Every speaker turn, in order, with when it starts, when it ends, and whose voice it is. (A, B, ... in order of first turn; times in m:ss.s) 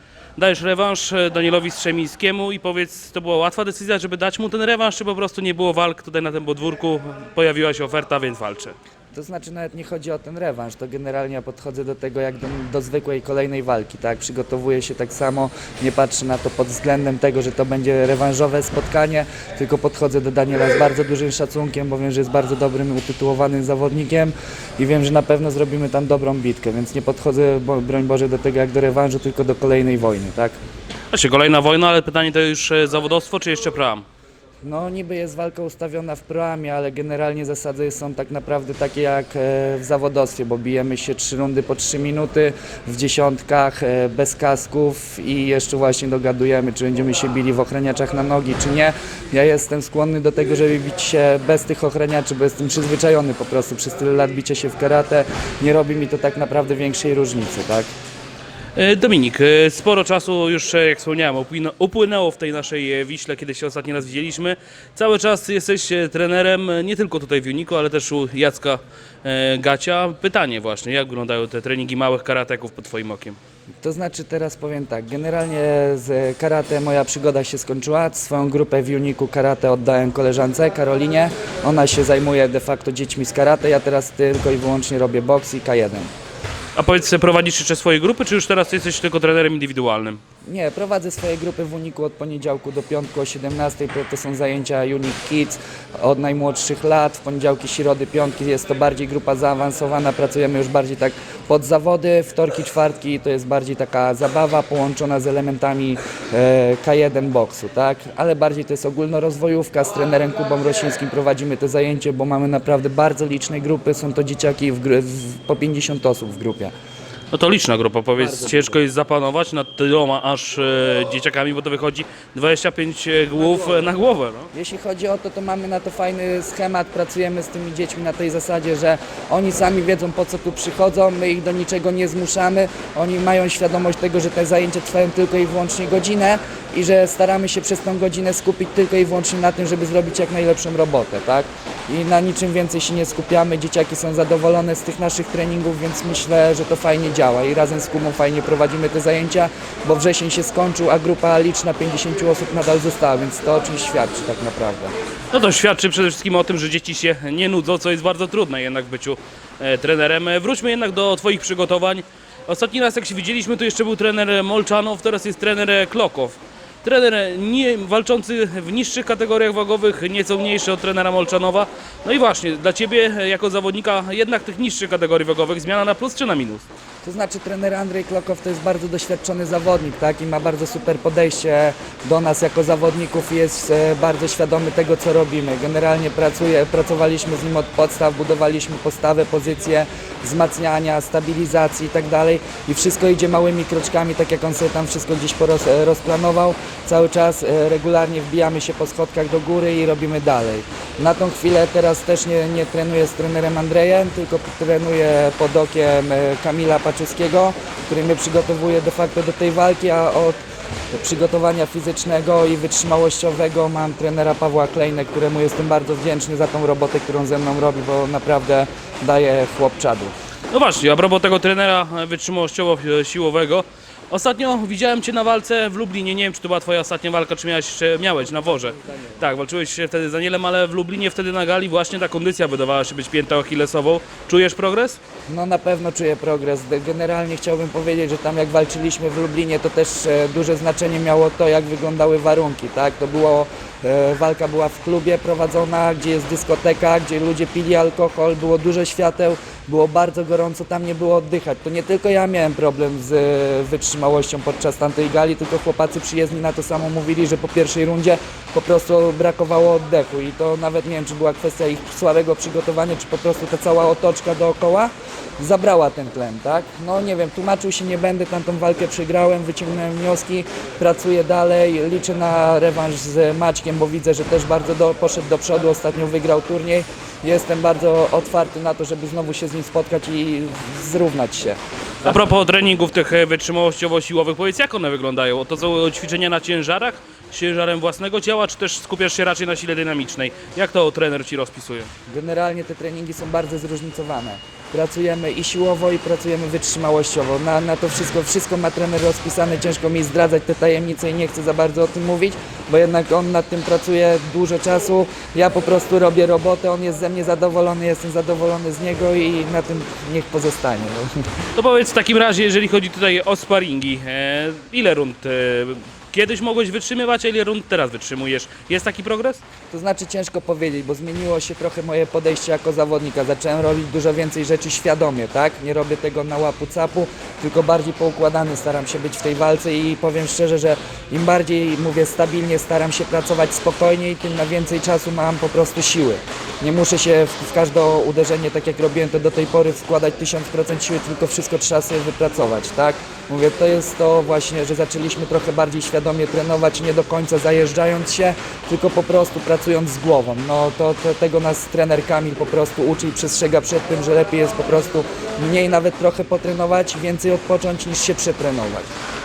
0:00.4-0:08.8 A
0:09.1-0:30.6 B
0:31.1-0:34.0 A
0:34.6-0:57.9 B
0:58.7-1:13.4 A
1:13.8-1:26.1 B
1:26.8-1:30.2 A
1:30.4-1:56.7 B
1:57.3-2:04.5 A
2:04.5-2:34.9 B
2:35.3-2:56.7 A
2:57.0-3:30.4 B
3:30.9-3:40.1 B
3:40.5-3:55.0 A
3:55.3-4:41.6 B
4:42.0-4:51.9 A
4:52.1-5:11.1 B
5:11.5-5:19.4 A
5:19.7-5:58.9 B